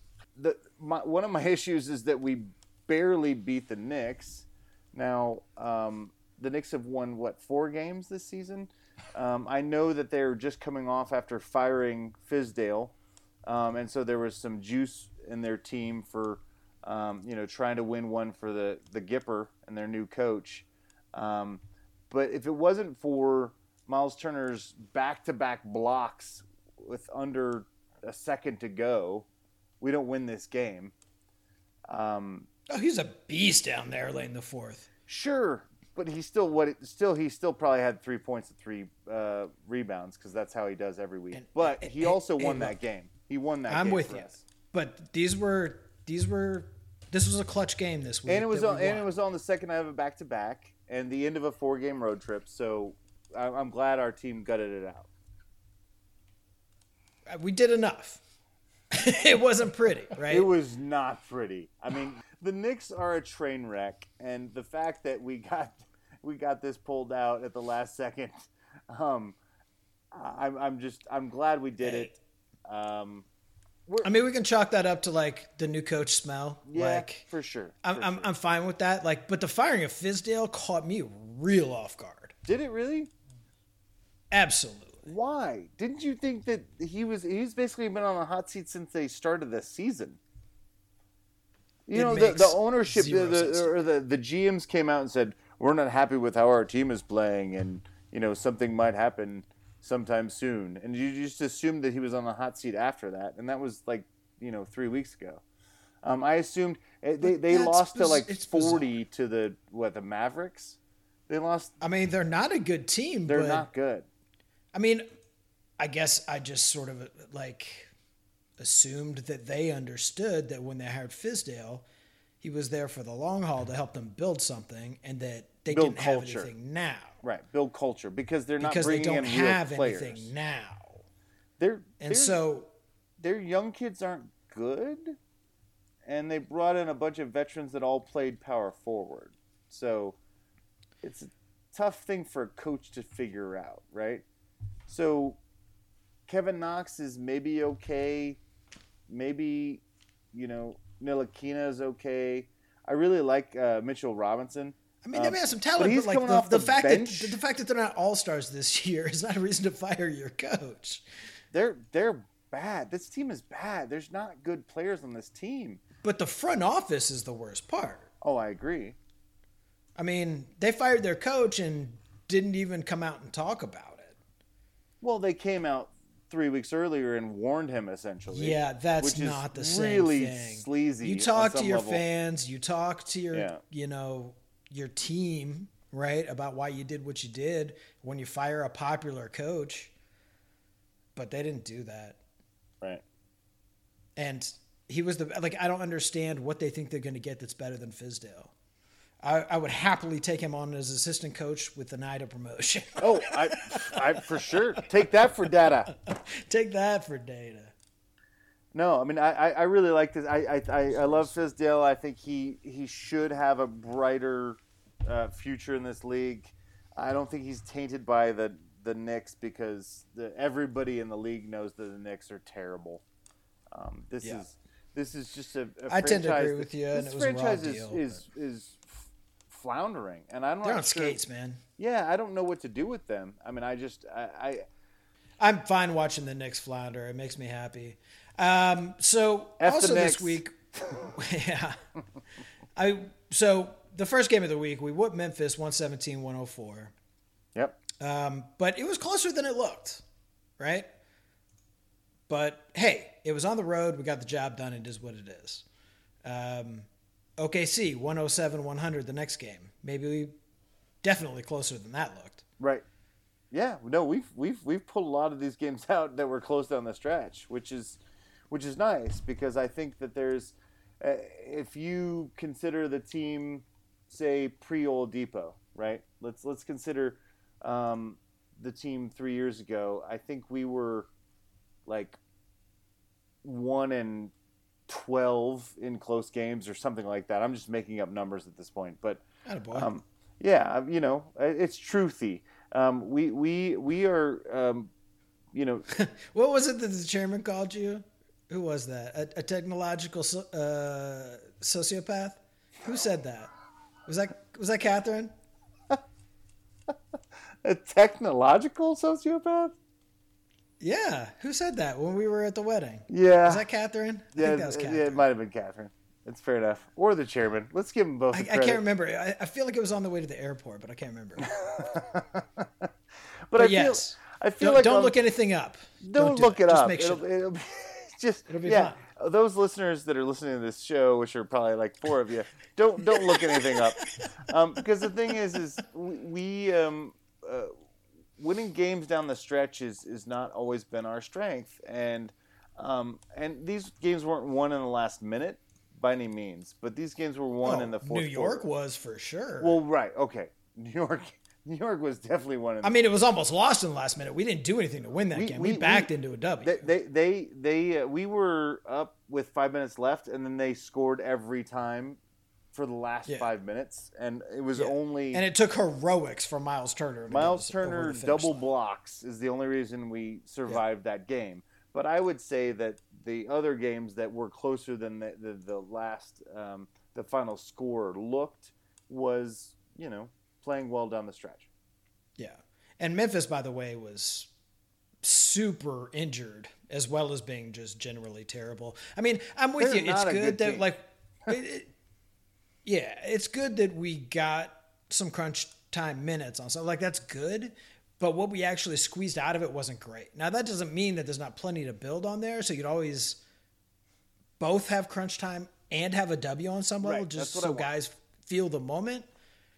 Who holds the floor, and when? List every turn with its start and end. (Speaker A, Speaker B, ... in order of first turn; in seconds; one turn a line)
Speaker A: 0.3-29.3
Speaker A: 29.8-30.9
Speaker A: 31.9-32.5
Speaker B: 32.7-34.9
Speaker A: 35.1-44.4
Speaker B: 41.3-42.8
Speaker B: 43.7-49.1
Speaker A: 48.2-55.1
Speaker B: 57.3-58.2
Speaker B: 58.9-60.5
Speaker A: 60.3-69.3
Speaker A: 70.1-73.2
Speaker B: 71.8-72.1
Speaker B: 74.0-77.3
Speaker A: 76.7-78.3
Speaker B: 77.8-82.3
Speaker A: 82.5-83.1
Speaker B: 84.3-85.1
Speaker A: 85.0-90.2
Speaker A: 91.9-105.4
Speaker B: 91.9-93.8
Speaker A: 106.0-110.8
Speaker B: 107.2-108.9
Speaker A: 111.3-111.7
Speaker B: 111.8-113.7
Speaker A: 113.3-114.1
Speaker B: 114.7-115.1
Speaker B: 115.8-117.9
Speaker B: 118.6-121.8
Speaker B: 122.4-127.2
Speaker A: 125.7-126.5
Speaker A: 127.2-130.3
Speaker B: 128.6-131.0
Speaker A: 131.6-132.4
Speaker B: 132.0-132.7
Speaker A: 133.2-135.2
Speaker A: 136.0-140.2
Speaker A: 141.0-144.2
Speaker A: 144.9-145.4
Speaker A: 146.3-148.4
Speaker A: 149.1-157.4
Speaker B: 155.0-161.0
Speaker A: 161.5-165.8
Speaker B: 166.0-168.1
Speaker A: 168.2-169.0
Speaker B: 169.9-174.2
Speaker A: 175.0-182.0
Speaker B: 178.3-189.9
Speaker A: 183.3-183.6
Speaker B: 191.1-192.2
Speaker B: 194.2-198.5
Speaker B: 199.2-204.1
Speaker A: 203.0-205.9
Speaker B: 205.9-207.7
Speaker A: 208.7-223.0
Speaker B: 210.9-211.3
Speaker A: 223.7-231.2
Speaker B: 225.9-228.2
Speaker B: 230.6-231.6
Speaker A: 231.8-234.6
Speaker B: 235.4-241.8
Speaker A: 239.6-240.4
Speaker B: 242.8-246.9
Speaker B: 248.0-250.0
Speaker B: 250.6-250.9
Speaker B: 252.3-255.6
Speaker B: 256.2-256.9
Speaker B: 257.4-260.3
Speaker B: 261.0-262.4
Speaker A: 262.6-262.8
Speaker A: 263.5-268.0
Speaker A: 268.5-281.1
Speaker A: 281.9-282.2
Speaker A: 283.4-284.3
Speaker A: 284.9-294.9
Speaker B: 289.4-289.9
Speaker A: 295.5-295.9
Speaker B: 295.9-303.5
Speaker B: 304.1-305.3
Speaker A: 307.6-309.8
Speaker B: 310.8-315.2
Speaker A: 313.1-313.6
Speaker A: 314.3-318.8
Speaker B: 318.3-321.5
Speaker A: 321.5-322.9
Speaker A: 323.5-325.1
Speaker B: 323.6-327.2
Speaker A: 326.0-337.7
Speaker B: 328.5-329.0
Speaker A: 338.4-348.6
Speaker B: 347.6-349.8
Speaker A: 349.6-352.9
Speaker B: 352.8-356.9
Speaker A: 355.3-356.1
Speaker A: 356.6-362.2
Speaker A: 362.7-365.4
Speaker B: 364.8-368.6
Speaker A: 367.3-381.7
Speaker B: 382.4-384.5
Speaker B: 385.2-391.9
Speaker A: 389.8-390.9
Speaker B: 392.8-403.4
Speaker B: 404.6-409.3
Speaker A: 407.0-407.9